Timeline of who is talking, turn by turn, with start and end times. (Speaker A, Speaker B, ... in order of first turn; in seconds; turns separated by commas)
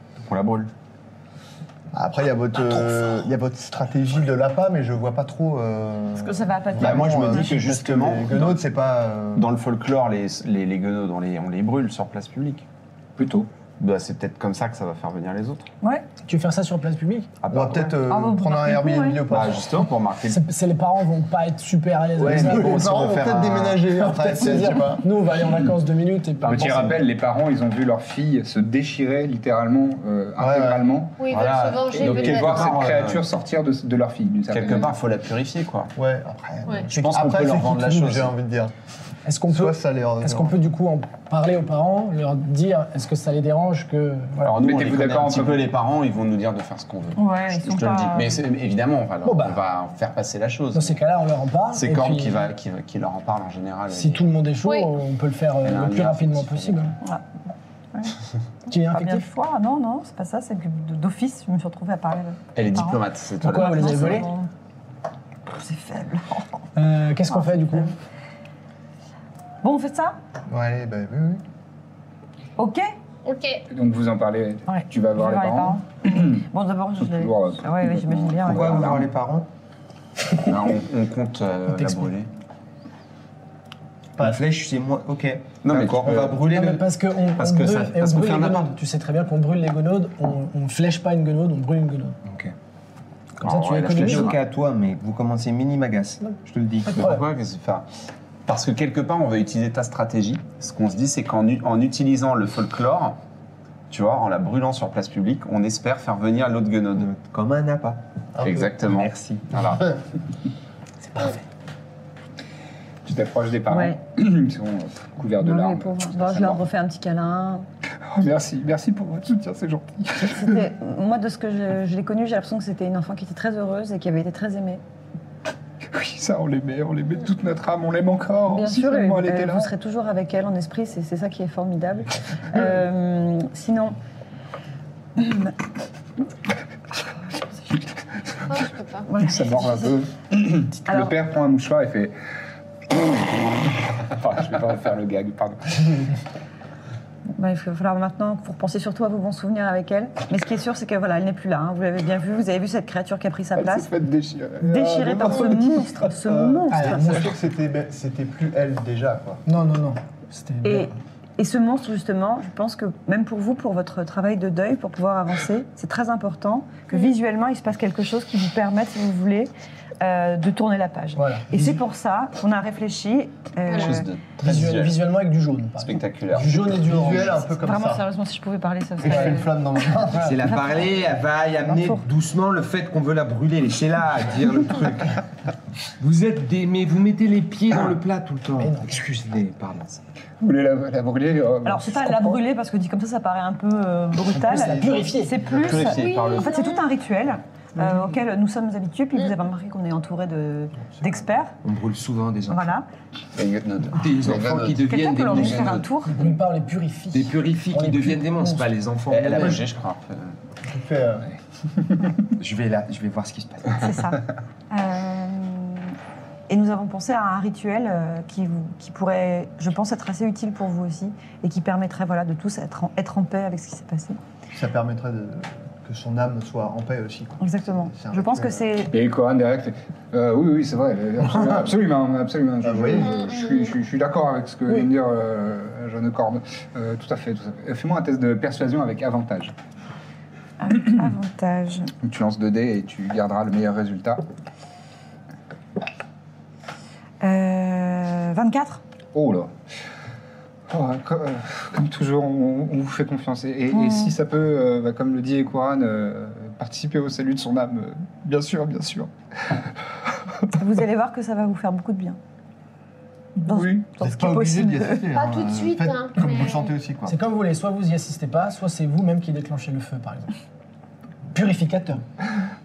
Speaker A: 0.2-0.7, Speaker B: 1.9-9.5, Speaker C: 6.1-7.6, Speaker A: 6.8-8.6, Speaker A: 9.3-12.7, Speaker D: 13.2-13.5, Speaker A: 13.8-15.7, Speaker E: 16.2-17.3, Speaker A: 17.4-18.0, Speaker B: 17.5-19.9, Speaker C: 18.1-19.2, Speaker A: 19.3-20.4, Speaker E: 20.3-22.8, Speaker A: 22.2-23.8, Speaker B: 22.2-25.0, Speaker E: 23.9-26.9, Speaker D: 26.4-31.2, Speaker B: 30.4-30.9, Speaker F: 31.2-32.8, Speaker A: 31.3-33.2, Speaker D: 31.9-34.9, Speaker A: 34.5-35.9, Speaker B: 36.0-38.7, Speaker A: 36.9-38.3, Speaker E: 39.2-44.6, Speaker B: 39.5-40.6, Speaker A: 44.4-51.0, Speaker D: 44.6-45.7, Speaker C: 47.1-48.4, Speaker E: 49.2-49.6, Speaker E: 50.7-52.4, Speaker A: 51.7-54.3, Speaker E: 53.9-56.9, Speaker F: 54.6-54.9, Speaker A: 55.6-57.0, Speaker E: 58.7-59.2, Speaker C: 58.7-64.5, Speaker A: 62.5-64.3, Speaker E: 63.4-64.3, Speaker C: 65.5-66.7, Speaker E: 66.7-67.9, Speaker C: 67.2-67.9, Speaker C: 69.6-70.2, Speaker B: 70.5-71.4, Speaker C: 72.6-72.9, Speaker F: 73.2-73.6, Speaker D: 73.7-76.5, Speaker C: 74.7-79.0, Speaker D: 77.0-79.1, Speaker G: 78.4-79.5, Speaker A: 80.4-82.3, Speaker G: 84.2-86.8, Speaker A: 85.6-86.4, Speaker E: 86.4-92.2, Speaker A: 87.3-88.7, Speaker G: 92.2-92.5, Speaker E: 93.4-94.3, Speaker A: 93.4-94.4, Speaker G: 93.9-97.0, Speaker E: 96.2-97.2, Speaker A: 96.9-97.8, Speaker A: 98.5-103.2, Speaker A: 103.9-107.1, Speaker G: 106.9-109.7, Speaker B: 108.4-108.7, Speaker A: 108.4-109.8, Speaker D: 113.0-116.6, Speaker C: 113.7-114.0, Speaker C: 115.3-117.7, Speaker D: 118.0-120.7, Speaker C: 120.2-124.8, Speaker D: 125.9-129.7, Speaker C: 128.5-134.0, Speaker C: 135.2-135.6, Speaker C: 137.4-137.8, Speaker F: 138.5-139.1, Speaker C: 139.1-139.9, Speaker D: 139.2-142.1, Speaker C: 140.9-141.1, Speaker D: 142.9-146.1, Speaker C: 147.3-153.9, Speaker D: 153.6-156.1, Speaker C: 154.6-157.2, Speaker B: 156.2-159.4, Speaker E: 156.7-157.3, Speaker E: 159.4-160.9, Speaker C: 160.6-174.1, Speaker E: 171.2-171.8, Speaker A: 173.7-175.0, Speaker E: 174.4-177.3, Speaker A: 175.8-177.1, Speaker B: 176.8-178.0, Speaker C: 177.2-179.5, Speaker B: 179.0-180.4, Speaker E: 180.1-180.4, Speaker G: 180.2-185.2, Speaker C: 180.4-180.8, Speaker C: 181.7-182.0, Speaker G: 186.0-190.0, Speaker E: 188.6-188.9, Speaker D: 190.4-192.4, Speaker C: 191.6-201.5, Speaker B: 194.3-195.9, Speaker E: 194.4-195.3, Speaker A: 195.5-196.5, Speaker F: 195.9-196.8, Speaker B: 200.9-201.2, Speaker G: 201.6-202.6, Speaker C: 202.5-202.9, Speaker A: 203.3-205.9, Speaker G: 204.0-205.8, Speaker C: 204.7-206.3, Speaker E: 206.1-208.7, Speaker G: 207.1-209.7, Speaker A: 209.1-210.3, Speaker B: 210.6-211.3, Speaker G: 212.3-214.0, Speaker C: 213.8-215.9, Speaker C: 216.5-224.2, Speaker B: 224.5-228.7, Speaker C: 227.4-228.9, Speaker D: 228.9-239.5, Speaker B: 232.6-233.1, Speaker F: 233.0-233.7, Speaker C: 240.6-241.9, Speaker D: 242.0-244.2, Speaker C: 247.2-248.8, Speaker D: 249.1-249.5, Speaker D: 250.7-259.6, Speaker C: 253.7-254.2, Speaker C: 260.5-262.2, Speaker D: 263.4-263.9, Speaker C: 263.4-265.1, Speaker B: 264.0-267.1, Speaker F: 265.1-266.7, Speaker E: 267.1-270.4, Speaker E: 271.3-272.0